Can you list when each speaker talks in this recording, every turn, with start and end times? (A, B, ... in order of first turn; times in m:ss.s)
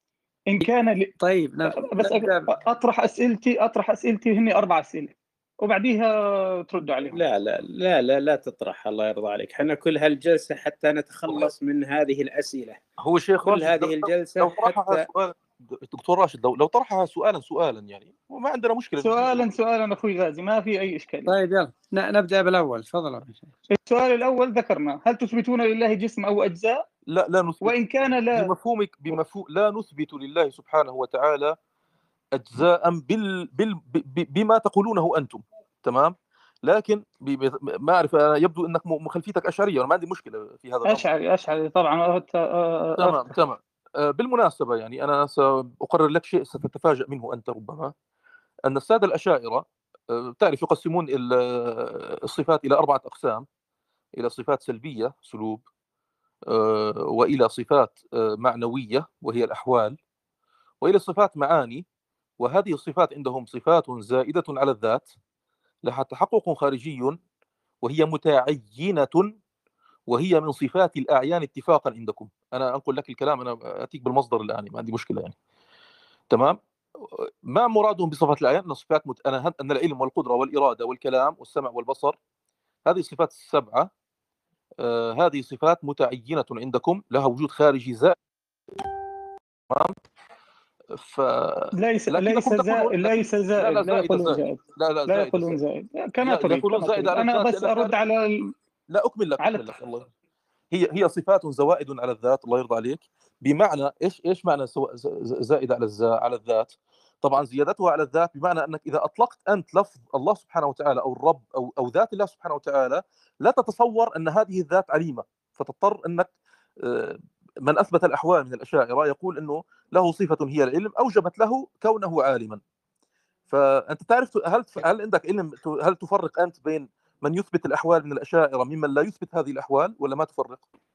0:00.5-0:01.1 A
0:01.2-0:02.5 B
0:01.7-0:06.1 A
0:06.7-0:07.2 A
0:07.1-0:12.8 C
0:13.0-0:19.4 D
0:13.4-0:15.1 C
0:19.0-0:21.3 A
0:21.3-0:23.5 B
0:23.7-0:26.8 A
0:27.1-0:27.7 D
0:27.6-0:28.5 A
0:28.3-0:31.6 D
0:32.3-0:41.0 D
0:40.8-0:43.3 A
0:43.0-0:47.9 D
0:48.6-0:53.4 D
0:54.2-0:55.6 D
0:56.5-1:00.0 D
1:00.8-1:01.8 D
1:02.4-1:05.1 D
1:05.8-1:07.2 D
1:07.8-1:09.4 D
1:10.1-1:15.3 D
1:16.3-1:22.2 D
1:22.8-1:23.9 D
1:24.8-1:28.2 D
1:31.0-1:35.6 D
1:31.7-1:38.5 A
1:36.2-1:38.0 D
1:38.9-1:40.1 D
1:39.4-1:39.7 A
1:40.7-1:56.3 D
1:56.8-2:02.6 D
2:03.5-2:10.6 D